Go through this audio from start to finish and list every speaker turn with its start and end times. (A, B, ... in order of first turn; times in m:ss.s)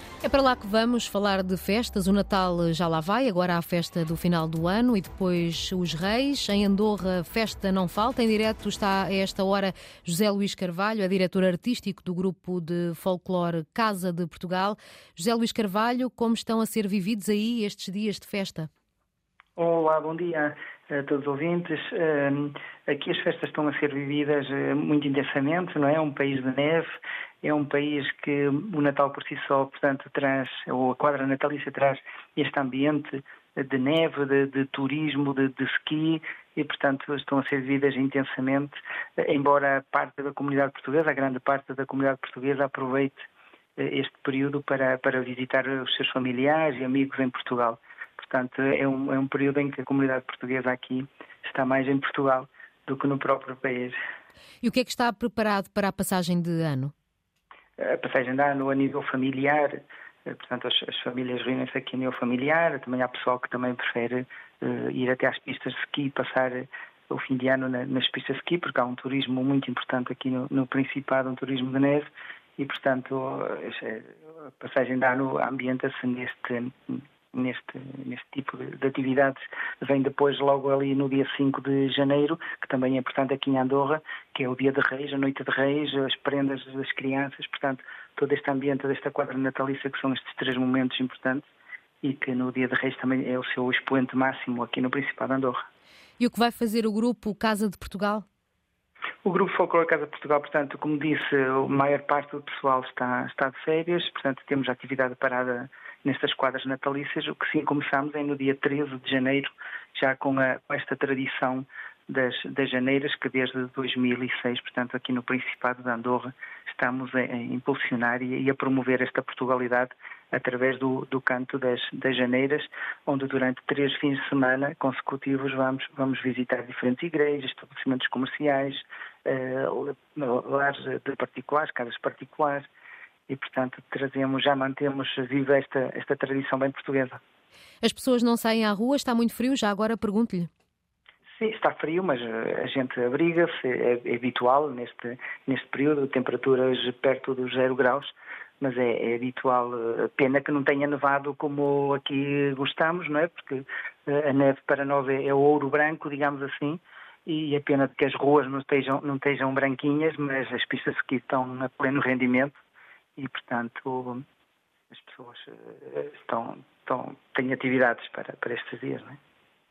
0:00.2-0:18.7 A
0:19.6-0:26.9 B
0:27.4-0:54.0 B
0:54.6-0:56.9 A
0:57.8-1:31.5 B
1:32.0-1:35.6 B
1:36.2-1:38.2 A
1:39.2-2:12.7 B
2:13.3-2:17.2 B
2:17.8-2:20.5 A
2:21.4-2:42.6 B
2:43.2-2:44.2 B
2:44.9-2:49.2 B